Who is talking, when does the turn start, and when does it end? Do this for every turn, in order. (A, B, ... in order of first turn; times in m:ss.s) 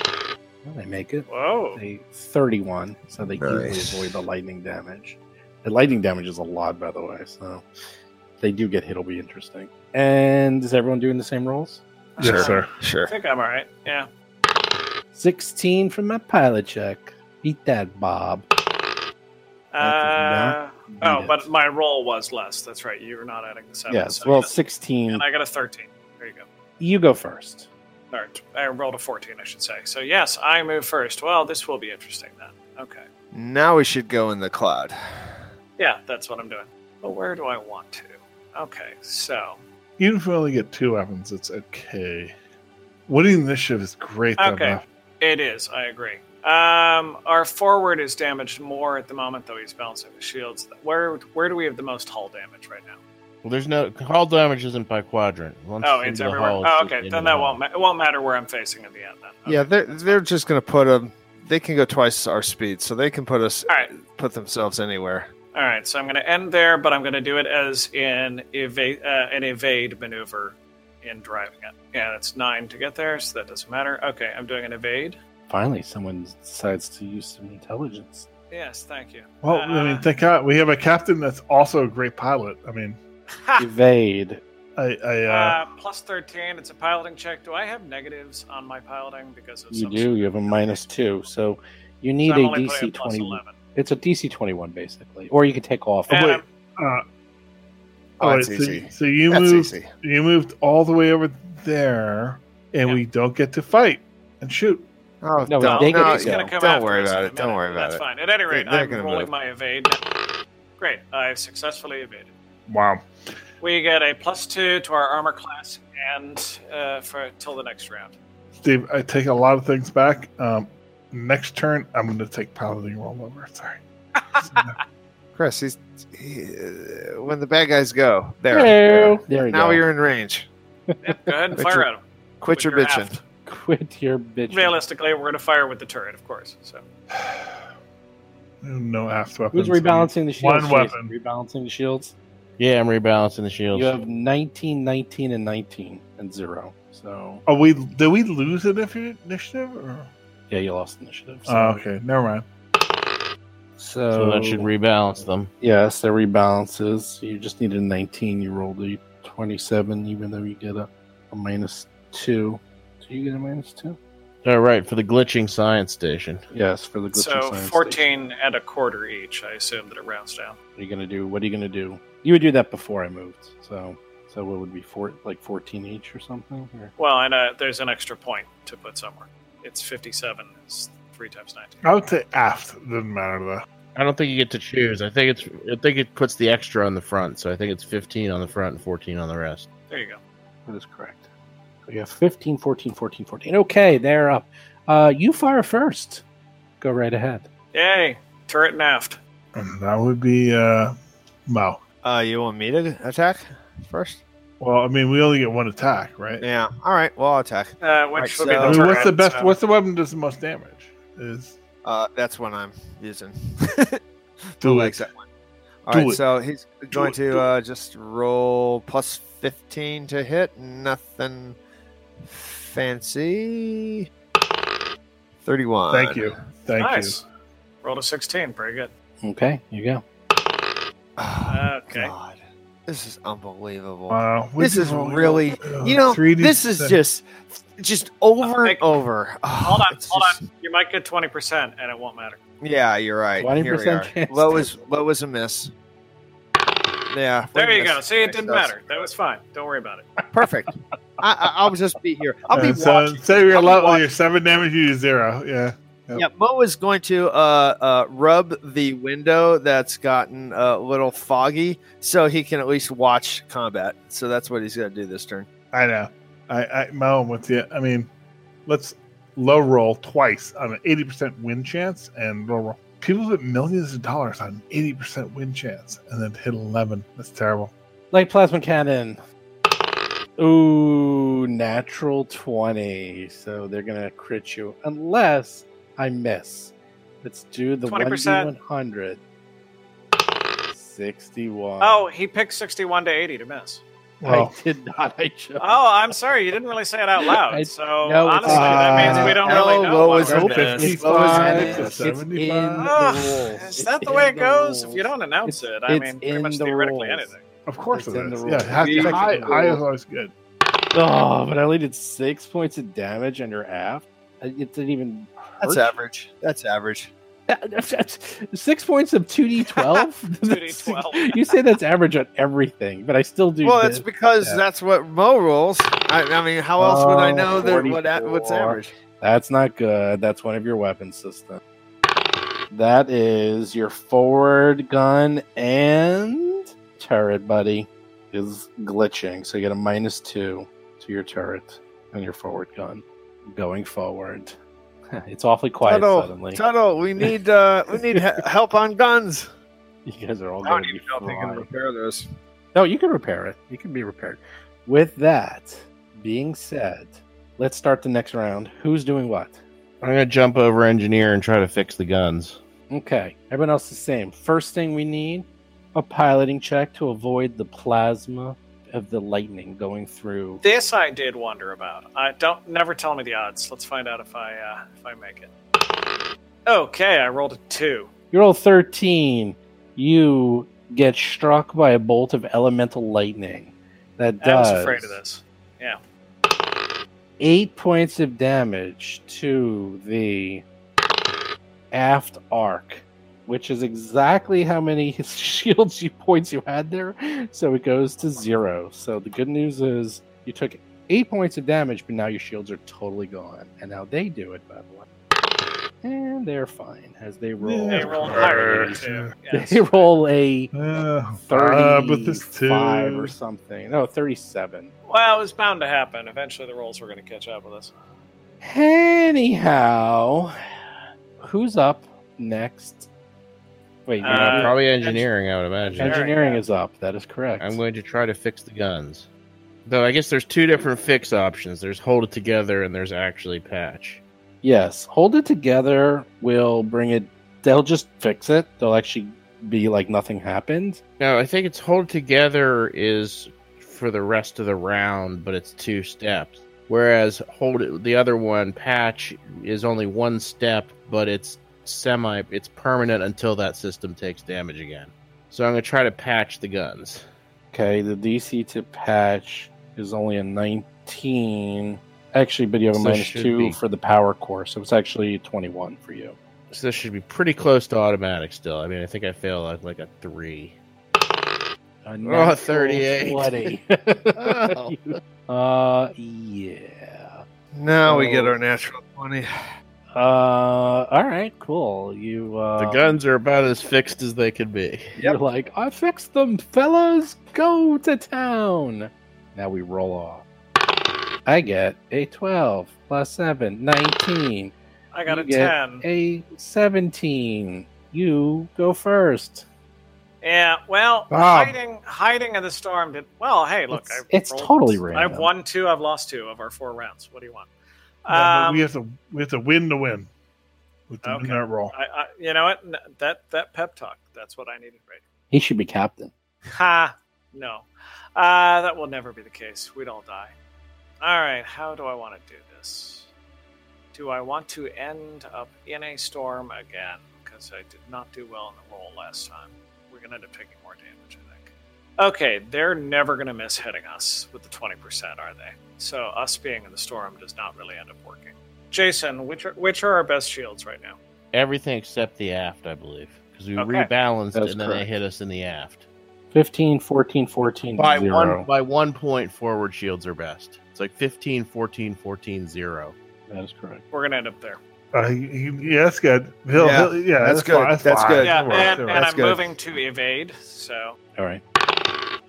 0:00.6-0:07.6 A
0:01.3-0:01.8 B
0:03.4-0:04.1 C
0:08.4-0:11.8 A
0:12.2-0:14.1 B
0:12.2-0:12.7 D
0:12.2-0:13.1 C
0:15.1-0:18.4 A
0:19.7-0:24.5 B
0:19.8-0:21.5 A
0:23.9-0:25.2 A
0:25.1-0:26.4 B
0:26.8-0:27.7 A
0:28.1-0:33.1 B
0:33.3-0:35.4 C
0:35.8-0:39.6 B
0:40.0-0:42.3 D
0:43.1-0:44.8 D
0:44.4-0:53.0 B
0:53.4-0:57.6 E
0:55.8-1:00.2 B
0:59.4-1:05.3 C
1:05.5-1:15.2 B
1:15.5-1:18.3 A
1:18.5-1:20.0 B
1:19.4-1:23.0 D
1:23.3-1:23.6 B
1:23.6-1:24.4 A
1:24.8-1:25.6 D
1:25.3-1:30.8 B
1:29.7-1:36.2 A
1:32.2-1:33.6 B
1:36.1-1:36.4 B
1:36.1-1:37.0 D
1:38.2-1:39.9 C
1:38.2-1:44.8 D
1:45.2-1:49.3 C
1:45.5-1:46.5 A
1:45.6-1:50.0 B
1:50.8-1:52.3 B
1:52.7-1:53.0 D
1:53.6-1:58.2 B
1:58.6-2:03.8 D
2:04.3-2:04.7 B
2:04.5-2:04.8 D
2:05.4-2:10.5 C
2:08.5-2:09.8 A
2:10.9-2:11.3 A
2:11.0-2:13.2 B
2:11.6-2:11.9 C
2:12.4-2:13.2 C
2:13.4-2:14.8 A
2:14.5-2:16.8 B
2:17.1-2:17.5 D
2:18.6-2:21.1 D
2:19.5-2:22.1 A
2:22.6-2:24.0 E
2:23.7-2:27.4 A
2:27.4-2:30.1 D
2:30.5-2:31.8 A
2:31.5-2:32.4 D
2:33.8-2:34.7 A
2:34.1-2:35.5 E
2:35.6-2:44.0 A
2:44.4-2:46.4 E
2:46.5-2:48.0 A
2:47.1-2:50.6 B
2:50.8-2:56.9 A
2:57.0-3:01.8 B
3:01.8-3:03.6 D
3:04.0-3:09.7 E
3:09.9-3:10.2 B
3:10.7-3:11.3 A
3:11.9-3:16.2 A
3:16.8-3:17.5 A
3:17.7-3:19.2 B
3:19.5-3:21.0 D
3:21.5-3:21.8 D
3:22.0-3:24.2 C
3:24.6-3:26.4 D
3:26.4-3:29.1 C
3:27.8-3:29.6 B
3:28.6-3:31.6 D
3:31.8-3:34.0 C
3:34.6-3:35.2 C
3:34.6-3:35.1 D
3:35.8-3:41.6 C
3:35.9-3:36.2 D
3:36.9-3:37.4 D
3:42.2-3:44.0 C
3:45.4-3:46.3 C
3:45.9-3:47.2 D
3:46.8-3:47.2 B
3:47.8-3:48.9 B
3:49.2-3:50.0 A
3:51.2-4:00.4 C
3:51.5-3:52.1 B
3:54.1-3:57.0 D
3:58.4-3:58.8 B
3:59.6-4:02.4 B
4:02.6-4:05.7 C
4:03.4-4:04.7 A
4:07.1-4:09.1 C
4:07.5-4:10.0 B
4:10.3-4:14.1 C
4:12.5-4:16.2 D
4:16.2-4:25.5 C
4:25.7-4:28.1 D
4:28.6-4:37.7 D
4:38.1-4:39.2 A
4:40.4-4:49.2 A
4:47.8-4:48.5 B
4:50.7-4:52.1 A
4:51.8-4:53.8 B
4:54.2-4:54.5 D
4:54.2-4:55.8 A
4:55.6-5:00.8 B
4:57.2-5:07.3 A
4:58.4-5:02.1 C
5:00.2-5:02.9 D
5:02.8-5:07.4 B
5:07.6-5:10.3 D
5:07.9-5:09.8 A
5:08.8-5:09.8 C
5:10.9-5:16.0 A
5:15.6-5:17.1 C
5:17.5-5:24.6 A
5:20.4-5:21.5 B
5:23.6-5:28.9 C
5:26.8-5:31.6 A
5:32.7-5:44.6 A
5:45.1-5:46.6 A
5:45.8-5:49.5 C
5:50.0-5:51.7 A
5:50.6-5:52.3 C
5:52.7-5:59.6 A
6:00.0-6:02.6 E
6:02.9-6:10.6 A
6:10.6-6:15.5 B
6:16.6-6:18.1 B
6:18.3-6:25.2 A
6:24.4-6:26.0 B
6:27.4-6:30.6 A
6:31.9-6:45.0 A
6:46.0-6:50.7 A
6:47.6-6:49.3 D
6:47.9-6:50.1 B
6:50.7-6:53.3 D
6:51.5-6:54.9 A
6:55.1-6:57.9 B
6:58.6-7:00.5 A
7:01.4-7:03.1 A
7:04.1-7:05.3 A
7:04.2-7:04.8 B
7:04.2-7:06.2 E
7:06.0-7:07.8 A
7:06.0-7:06.6 B
7:07.6-7:09.3 E
7:09.8-7:14.2 E
7:14.6-7:21.0 A
7:21.2-7:37.2 E
7:37.7-7:46.4 A
7:42.9-7:43.8 E
7:46.7-7:50.7 E
7:52.0-7:57.4 A
7:52.2-7:53.7 E
7:54.4-7:54.7 C
7:57.7-7:59.5 C
7:58.0-7:58.6 A
8:00.1-8:03.2 A
8:02.8-8:05.2 E
8:05.2-8:10.4 A
8:11.4-8:14.7 A
8:15.1-8:16.0 B
8:15.2-8:19.6 A
8:20.4-8:27.7 B
8:21.4-8:21.7 D
8:23.9-8:25.5 A
8:28.2-8:28.9 B
8:28.3-8:30.3 D
8:31.1-8:31.9 D
8:31.2-8:35.2 B
8:35.5-8:36.3 A
8:36.6-8:40.5 B
8:41.2-8:43.3 B
8:44.1-9:01.2 B
9:01.5-9:06.0 E
9:03.8-9:04.1 B
9:04.5-9:05.1 A
9:06.5-9:08.6 A
9:08.0-9:13.1 E
9:13.5-9:14.0 A
9:14.1-9:14.8 B
9:15.1-9:19.3 D
9:16.7-9:19.6 C
9:18.4-9:21.2 B
9:21.4-9:21.6 A